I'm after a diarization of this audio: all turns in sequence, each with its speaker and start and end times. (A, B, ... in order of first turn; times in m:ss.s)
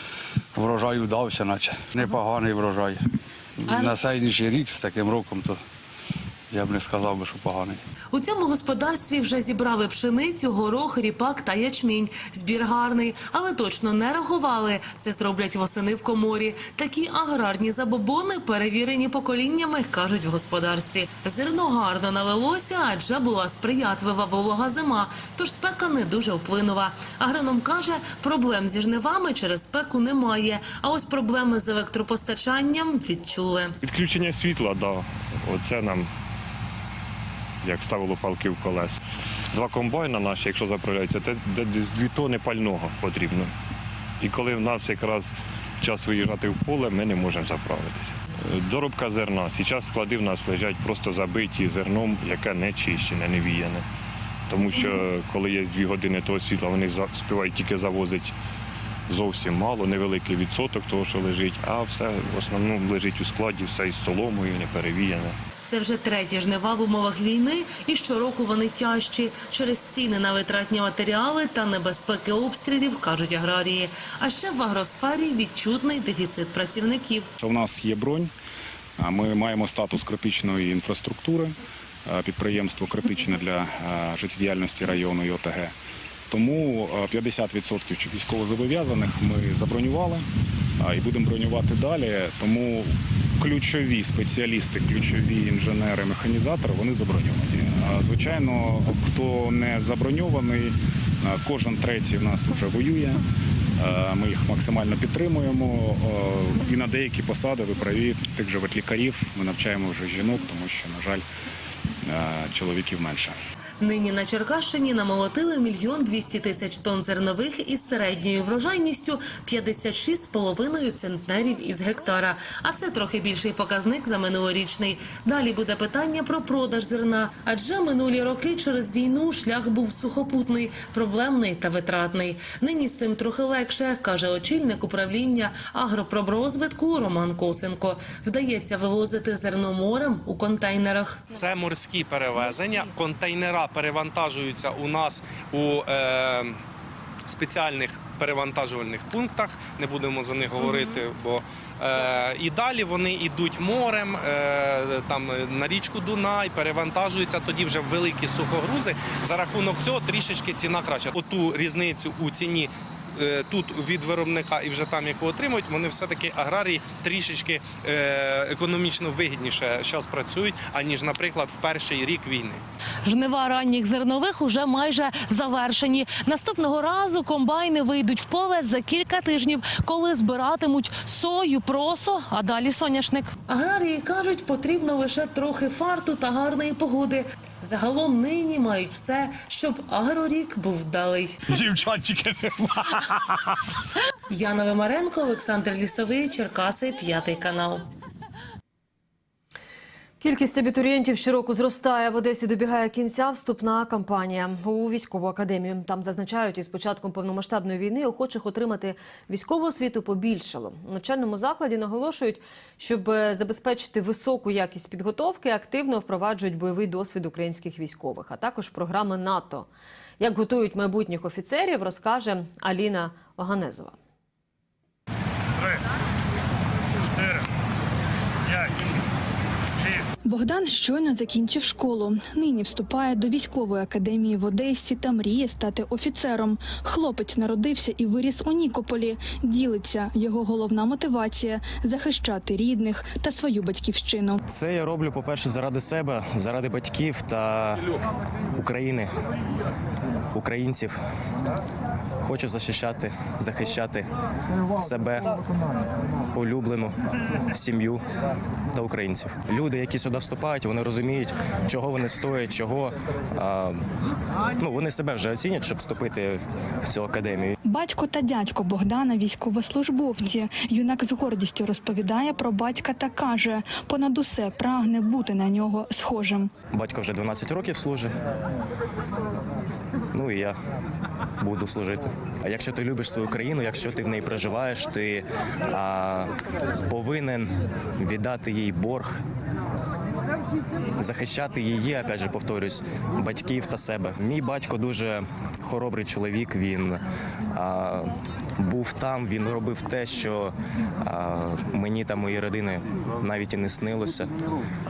0:00.5-0:03.0 A
0:03.6-0:05.6 A
0:06.5-0:07.8 A
0:08.1-0:33.8 B
0:33.8-0:36.1 C
0:37.6-0:39.0 C
0:39.5-0:43.5 C
0:44.2-0:53.8 C
0:54.5-0:58.3 C
0:59.1-1:05.4 C
1:05.7-1:17.3 B
1:17.4-1:18.3 D
1:19.0-1:25.7 D
1:26.3-1:30.2 D
1:30.8-1:43.2 D
1:43.8-1:51.2 D
1:52.0-1:53.4 D
1:53.8-2:21.3 B
2:21.3-2:26.6 E
2:27.3-2:52.6 E
2:53.0-3:03.3 F
3:03.5-3:11.4 B
3:11.5-3:12.7 A
3:14.3-3:17.9 B
3:20.2-3:39.7 G
3:40.2-3:44.0 G
3:50.2-4:04.4 H
4:04.5-4:07.9 I
4:08.5-4:09.1 I
4:10.3-4:11.0 I
4:12.2-4:14.1 I
4:14.8-4:15.4 I
4:16.3-4:16.9 I
4:17.5-4:18.0 I
4:18.7-4:23.8 I
4:24.6-4:27.5 I
4:27.6-4:36.5 H
4:36.7-4:38.1 I
4:40.1-4:40.6 I
4:41.4-4:46.3 I
4:46.9-4:49.2 I
4:51.0-4:57.0 I
4:57.5-5:04.3 I